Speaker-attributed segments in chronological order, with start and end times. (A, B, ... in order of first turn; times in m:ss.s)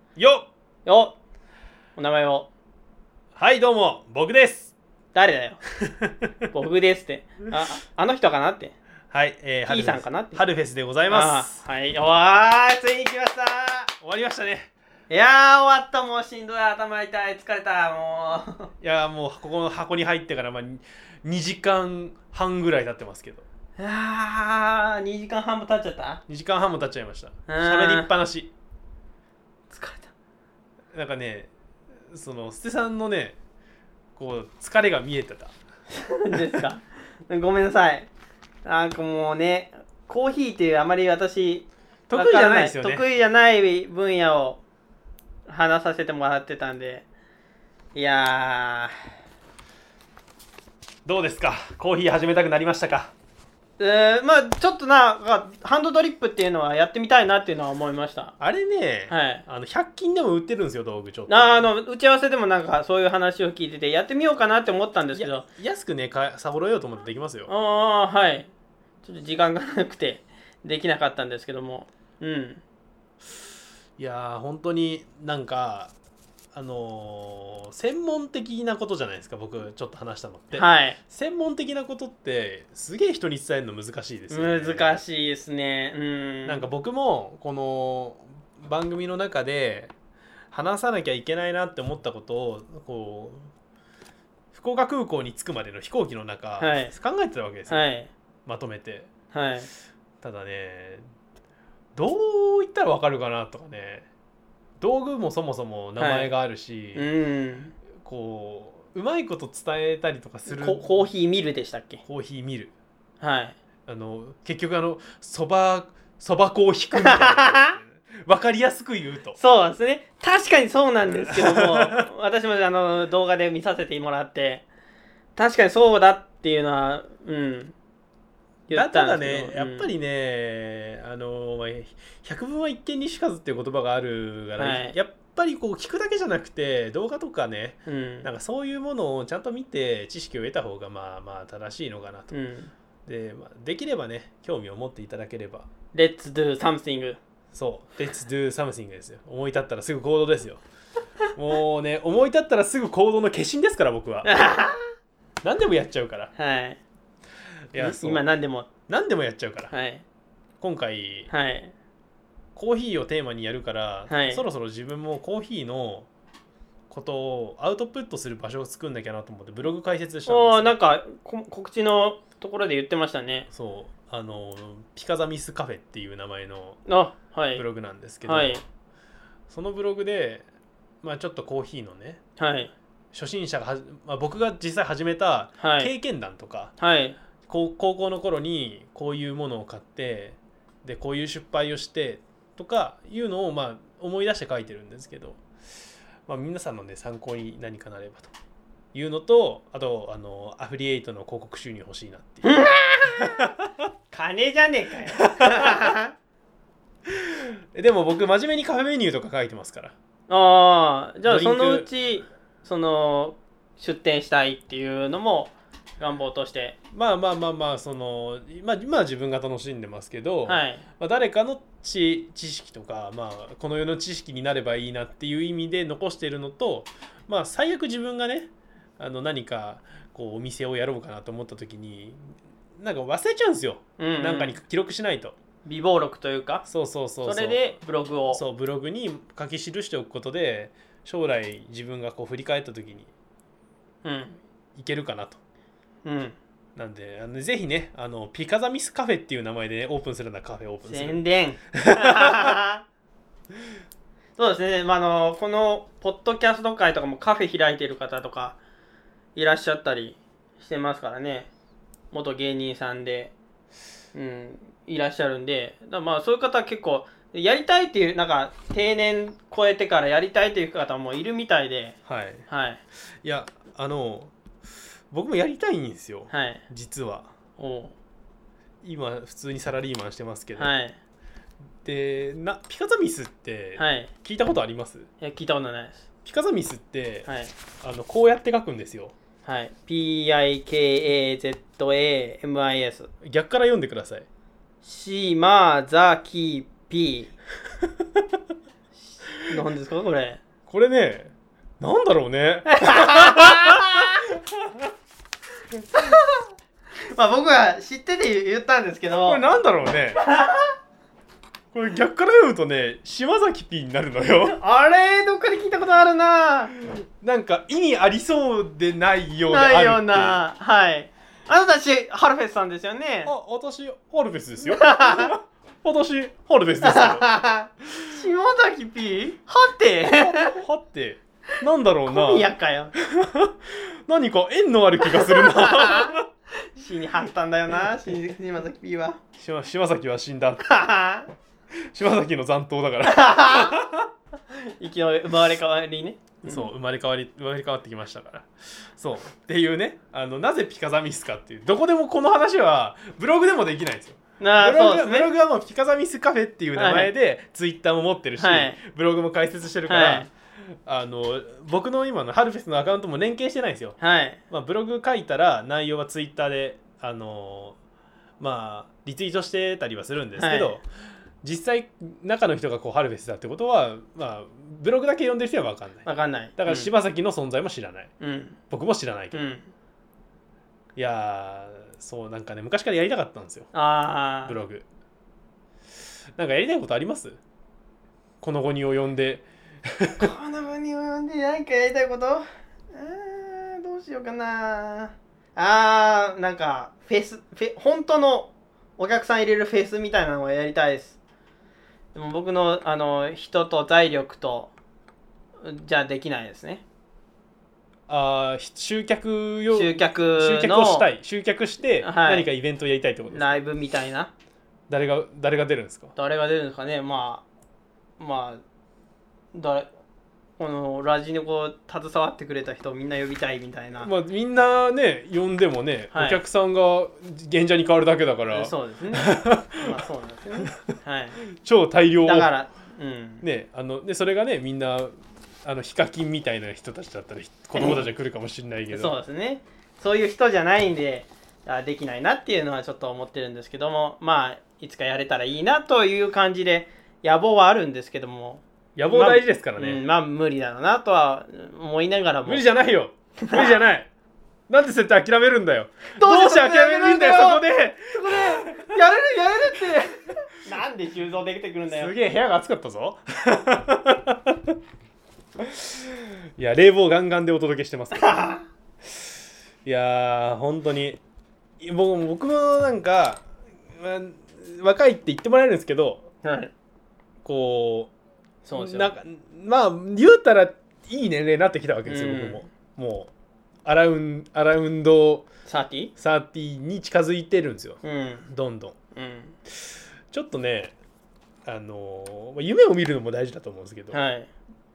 0:00.2-0:00.5 A
0:00.8-0:01.2 B
0:02.0-0:02.5 B
0:03.3-0:04.7 A
0:05.1-0:05.6 B
0:06.5-0:08.8 B
0:09.1-0:11.6 A
0:09.7-0:10.4 B
0:11.1-0:13.9 B
0:14.0-0:14.7 A
0:15.1-0:18.7 B
0:18.8-0:23.4 A
0:23.8-0:26.2 B
0:26.3-0:28.5 A
0:27.5-0:28.1 B
0:29.7-0:30.1 B
0:30.9-0:31.5 A
0:32.1-0:33.4 A
0:34.2-0:35.5 A
0:36.0-0:38.1 B
0:38.6-0:44.6 B
0:42.1-0:43.0 A
0:45.5-0:47.0 B
0:47.9-0:48.9 B
0:51.0-0:53.1 A
0:53.8-0:58.3 B
0:58.4-1:01.6 A
0:59.1-0:59.4 B
1:01.3-1:05.4 B
1:05.1-1:07.5 A
1:07.5-1:08.5 B
1:09.0-1:12.6 B
1:14.0-1:15.9 A
1:16.5-1:25.0 A
1:20.5-1:21.0 B
1:24.3-1:26.7 B
1:26.4-1:29.9 A
1:30.5-1:33.5 A
1:34.5-1:37.8 A
1:36.6-1:36.9 B
1:37.7-1:38.1 B
1:38.4-1:39.1 A
1:39.3-1:39.7 B
1:40.2-1:41.0 A
1:42.0-1:44.1 A
1:44.8-1:47.1 A
1:46.0-1:46.3 B
1:46.9-1:47.7 B
1:48.0-1:50.9 A
1:50.5-1:52.0 B
1:52.0-1:52.7 A
1:53.2-1:53.6 B
1:53.9-1:59.4 A
1:56.9-1:57.8 B
1:59.4-2:04.6 B
2:01.2-2:02.0 A
2:05.4-2:07.7 B
2:08.7-2:09.9 B
2:08.7-2:22.3 A
2:14.6-2:15.0 B
2:17.8-2:18.3 B
2:22.3-2:22.7 B
2:23.0-2:25.7 A
2:25.9-2:27.2 B
2:27.5-2:30.6 A
2:31.3-2:34.3 A
2:34.2-2:34.9 B
2:35.4-2:36.3 A
2:36.4-2:36.8 B
2:37.7-2:38.2 A
2:37.8-2:38.7 B
2:38.9-2:39.7 A
2:39.7-2:40.0 B
2:40.6-2:41.3 A
2:41.3-2:41.7 B
2:42.6-2:46.1 A
2:44.1-2:44.4 B
2:46.9-2:50.7 A
2:50.3-2:53.5 B
2:53.5-2:56.8 A
2:56.8-2:57.6 B
2:57.5-2:58.6 A
2:58.2-2:58.6 B
2:59.5-3:00.4 A
3:01.0-3:02.2 A
3:02.4-3:02.7 B
3:03.1-3:06.7 A
3:05.6-3:05.9 B
3:06.8-3:07.2 B
3:07.5-3:15.4 A
3:16.3-3:18.3 A
3:18.9-3:23.5 A
3:22.4-3:23.3 B
3:24.1-3:26.1 B
3:25.2-3:25.9 A
3:27.1-3:29.9 A
3:30.3-3:36.8 B
3:31.2-3:31.9 A
3:36.9-3:55.4 A
3:40.5-3:40.8 B
3:54.0-3:54.6 B
3:55.6-3:56.6 B
3:56.6-3:57.8 A
3:57.2-3:58.4 B
3:58.3-4:03.1 A
4:04.0-4:04.4 B
4:04.8-4:05.4 A
4:06.0-4:06.4 B
4:06.8-4:11.2 A
4:10.8-4:12.8 B
4:11.8-4:12.5 A
4:14.4-4:18.6 B
4:19.3-4:21.5 B
4:22.1-4:23.3 B
4:24.1-4:32.8 B
4:32.0-4:32.5 A
4:33.2-4:34.3 A
4:35.1-4:37.3 A
4:36.3-4:36.6 B
4:37.6-4:37.9 B
4:38.8-4:40.7 A
4:40.6-4:41.0 B
4:41.8-4:45.1 A
4:43.8-4:44.1 B
4:45.2-4:46.0 B
4:46.2-4:47.3 A
4:47.2-4:47.5 B
4:47.8-4:49.1 A
4:49.4-4:53.1 B
4:53.2-4:54.2 A
4:54.8-4:57.3 B
4:59.0-5:00.4 B
5:00.7-5:04.8 A
5:02.7-5:04.1 B
5:05.9-5:06.4 B
5:07.1-5:09.4 B
5:09.1-5:10.2 A
5:10.2-5:10.7 B
5:11.7-5:14.6 A
5:14.4-5:16.7 B
5:16.8-5:20.4 A
5:19.5-5:23.3 B
5:23.2-5:27.2 A
5:24.6-5:25.3 B
5:26.8-5:30.6 B
5:30.1-5:32.5 A
5:32.1-5:32.9 B
5:33.0-5:36.2 A
5:35.1-5:36.2 B
5:36.7-5:39.2 B
5:39.4-5:40.7 A
5:40.6-5:41.3 B
5:41.9-5:44.0 A
5:43.1-5:43.8 B
5:44.8-5:46.7 B
5:46.4-6:00.3 A
5:54.4-5:55.3 B
5:56.7-5:57.1 B
5:58.4-5:58.8 B
5:59.9-6:00.3 B
6:00.8-6:04.0 A
6:04.0-6:04.4 B
6:04.5-6:07.8 A
6:08.4-6:10.8 A
6:10.4-6:10.8 B
6:11.4-6:18.1 A
6:16.0-6:16.9 B
6:18.2-6:18.6 B
6:18.7-6:19.4 A
6:19.3-6:19.7 B
6:21.0-6:23.7 A
6:23.7-6:24.6 B
6:24.5-6:24.8 A
6:26.4-6:27.4 A
6:28.4-6:30.3 A
6:30.2-6:41.2 B
6:42.1-6:44.7 B
6:45.6-6:46.8 B
6:48.1-6:53.6 A
6:49.7-6:51.1 B
6:52.0-6:52.5 B
6:53.3-6:54.3 B
6:54.9-6:56.1 A
6:56.2-6:57.4 B
6:58.2-6:58.6 B
6:59.5-6:59.9 B
7:00.6-7:04.1 B
7:04.0-7:09.9 A
7:06.1-7:06.4 B
7:08.5-7:11.4 B
7:11.5-7:12.5 A
7:12.2-7:13.4 B
7:13.4-7:15.1 A
7:15.6-7:19.1 A
7:17.7-7:18.0 B
7:18.9-7:32.6 B
7:29.0-7:30.0 A
7:32.4-7:34.1 A
7:33.4-7:33.7 B
7:34.7-7:39.0 A
7:36.2-7:42.1 B
7:41.9-7:44.7 A
7:45.6-7:48.5 A
7:48.2-7:48.6 B
7:49.8-7:51.2 A
7:51.8-7:53.4 A
7:54.0-7:56.3 A
7:56.4-7:56.7 B
7:57.4-7:58.1 A
7:58.6-7:59.1 B
7:58.7-8:03.3 A
8:02.0-8:02.6 B
8:03.8-8:05.4 A
8:05.6-8:06.1 B
8:06.2-8:08.9 A
8:08.0-8:08.5 B
8:09.1-8:09.6 B
8:10.3-8:10.9 A
8:11.6-8:14.2 A
8:14.1-8:14.5 B